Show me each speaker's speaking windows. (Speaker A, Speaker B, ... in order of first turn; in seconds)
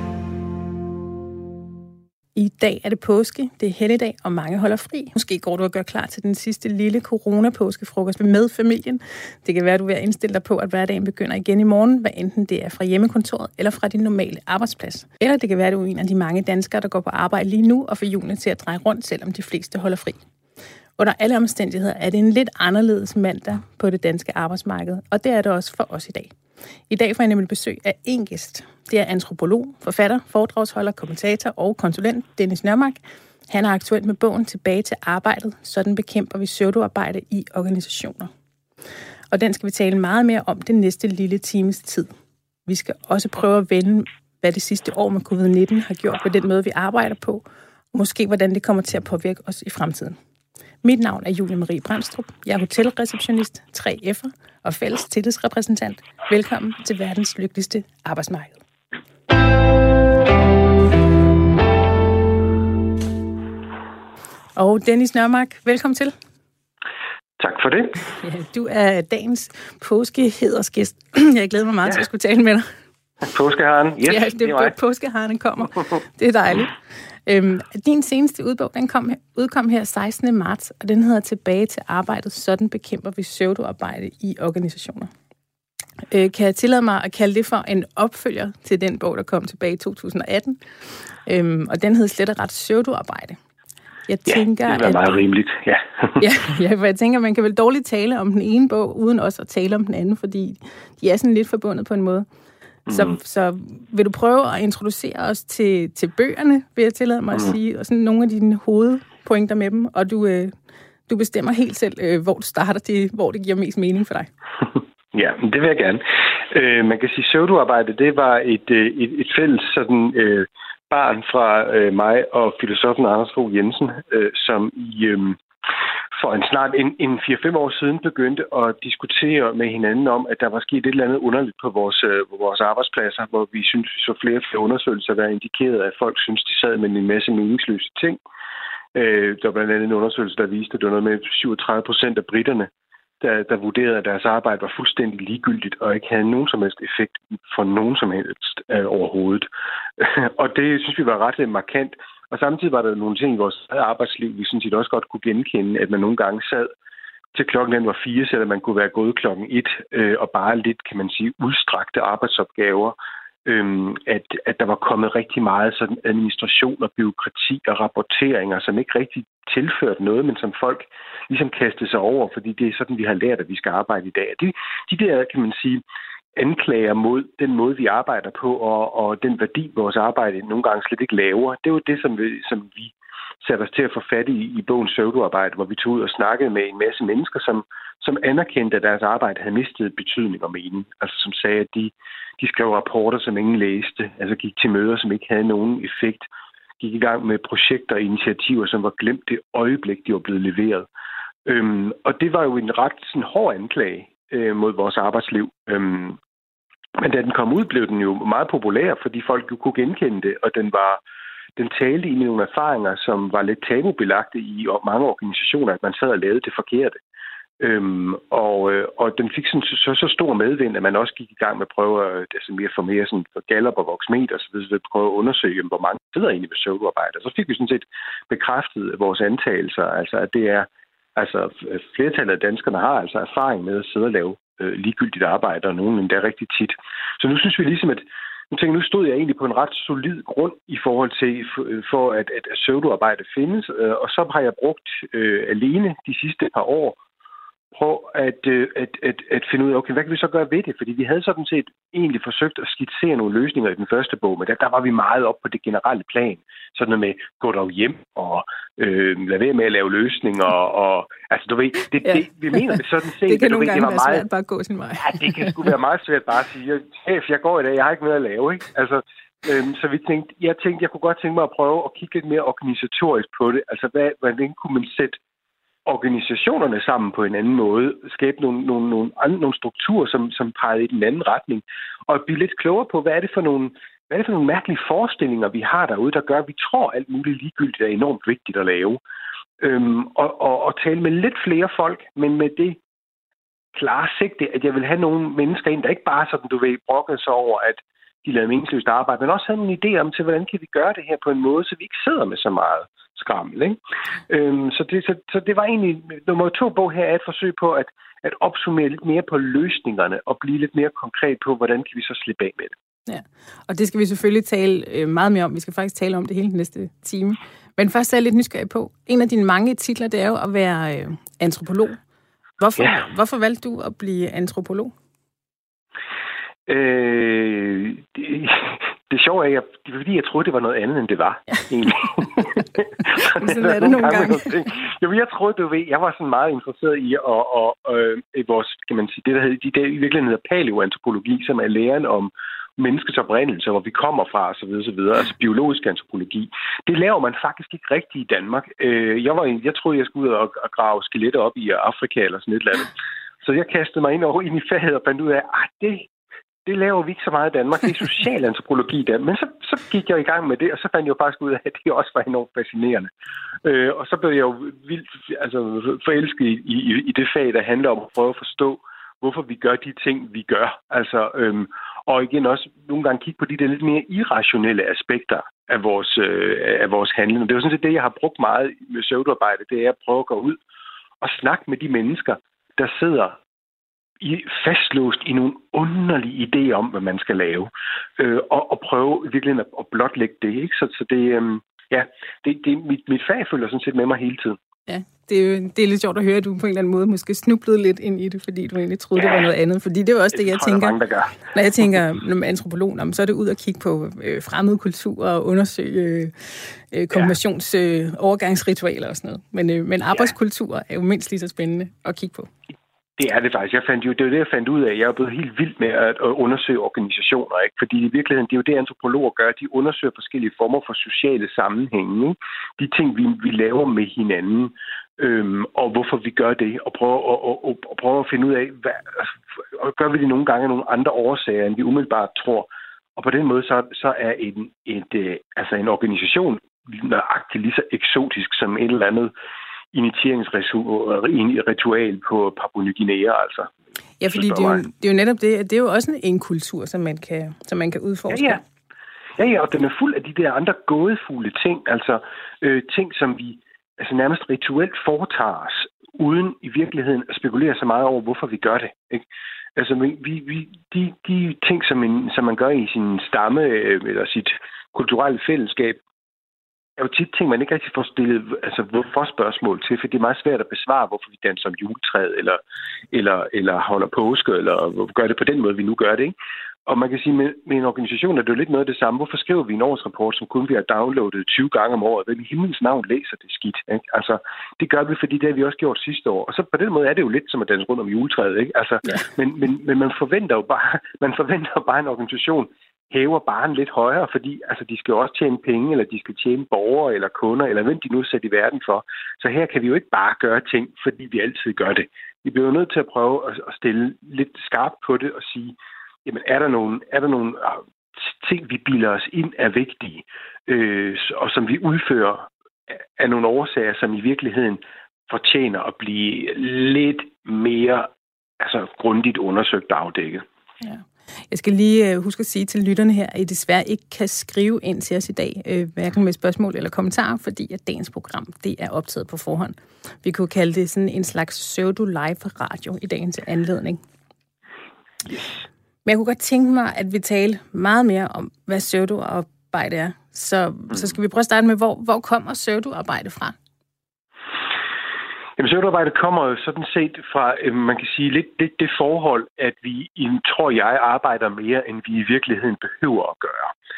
Speaker A: 2.4-20.2, 21.0-26.3, 26.9-38.3, 39.3-42.1, 42.7-50.2, 50.8-58.6, 64.6-66.2, 68.1-72.7, 74.1-85.1, 86.1-90.6, 91.2-93.4, 94.1-95.0, 96.2-102.3, 102.9-110.6, 111.1-114.3, 263.3-265.8, 313.1-322.0, 322.6-324.9, 333.1-334.5, 394.9-412.5, 444.2-448.6, 520.8-534.0, 536.0-543.6
Speaker B: 67.4-68.0, 73.2-74.7, 94.3-96.2, 102.9-103.2, 115.1-125.4, 126.1-138.2, 138.9-142.7, 143.2-156.7, 157.3-175.8, 176.4-196.3, 196.8-200.9, 201.4-206.2, 207.0-211.0, 211.6-217.0, 217.6-247.0, 247.7-264.3, 265.0-275.2, 275.9-289.0, 289.6-292.8, 293.8-312.8, 326.7-356.1, 356.6-363.1, 363.6-380.6, 381.2-383.4, 384.2-394.6, 399.2-399.5, 400.3-401.4, 413.2-439.3, 439.9-443.7, 444.3-444.8, 448.3-448.6, 449.4-459.2, 459.8-466.0, 467.0-472.6, 473.1-476.4, 476.9-520.5, 545.6-553.7